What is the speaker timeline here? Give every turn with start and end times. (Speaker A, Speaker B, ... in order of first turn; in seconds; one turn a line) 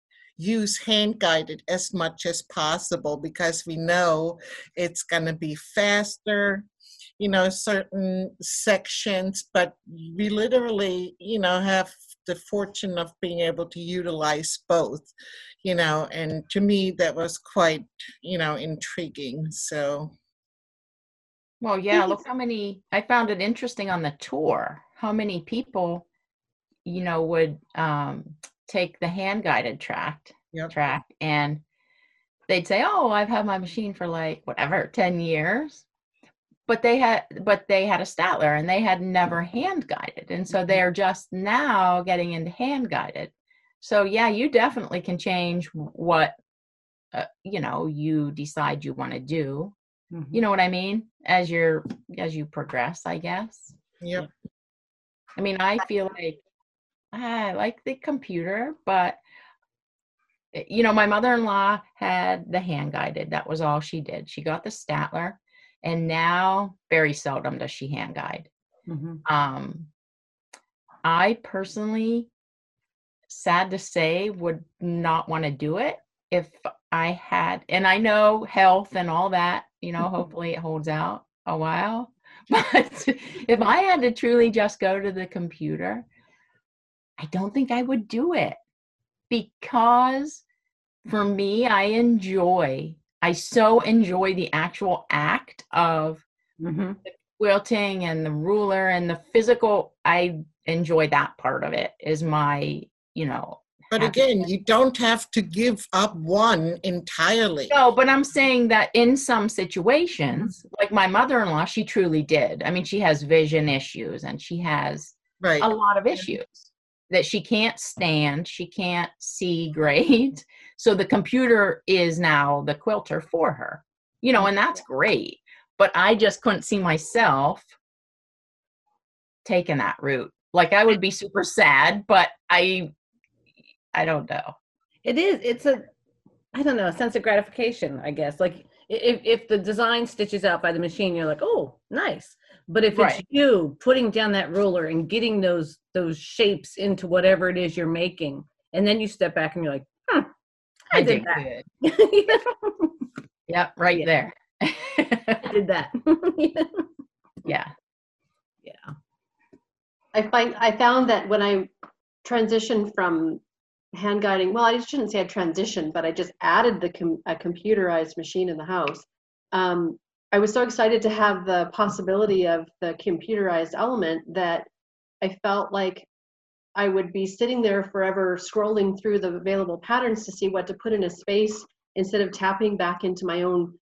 Speaker A: 0.4-6.7
Speaker A: 7.2-15.1
Speaker A: 15.6-20.1
Speaker B: 21.6-26.1
Speaker B: 26.9-31.6
Speaker B: 32.5-35.9
Speaker B: 36.7-46.3
Speaker B: 47.1-49.8
Speaker B: 50.3-53.8
Speaker A: 54.0-54.3
Speaker B: 55.4-56.4
Speaker B: 57.1-59.2
Speaker B: 60.5-68.5
Speaker C: 68.9-69.2
Speaker B: 69.3-69.9
Speaker B: 71.0-72.3
Speaker B: 73.3-86.1
Speaker B: 87.2-88.6
Speaker B: 89.3-90.4
Speaker B: 91.1-96.2
Speaker C: 96.6-97.0
Speaker B: 97.0-104.5
Speaker A: 103.9-107.8
Speaker B: 107.7-127.7
Speaker A: 115.4-116.3
Speaker B: 129.4-132.9
Speaker B: 133.9-134.5
Speaker C: 135.1-135.9
Speaker C: 136.5-150.3
Speaker B: 142.9-143.2
Speaker C: 150.9-153.0
Speaker B: 150.9-151.7
Speaker B: 153.5-155.5
Speaker C: 155.5-156.9
Speaker B: 157.4-157.7
Speaker C: 158.6-158.9
Speaker D: 160.1-161.7
Speaker D: 162.2-163.4
Speaker D: 163.9-174.7
Speaker D: 175.2-176.1
Speaker D: 176.8-183.8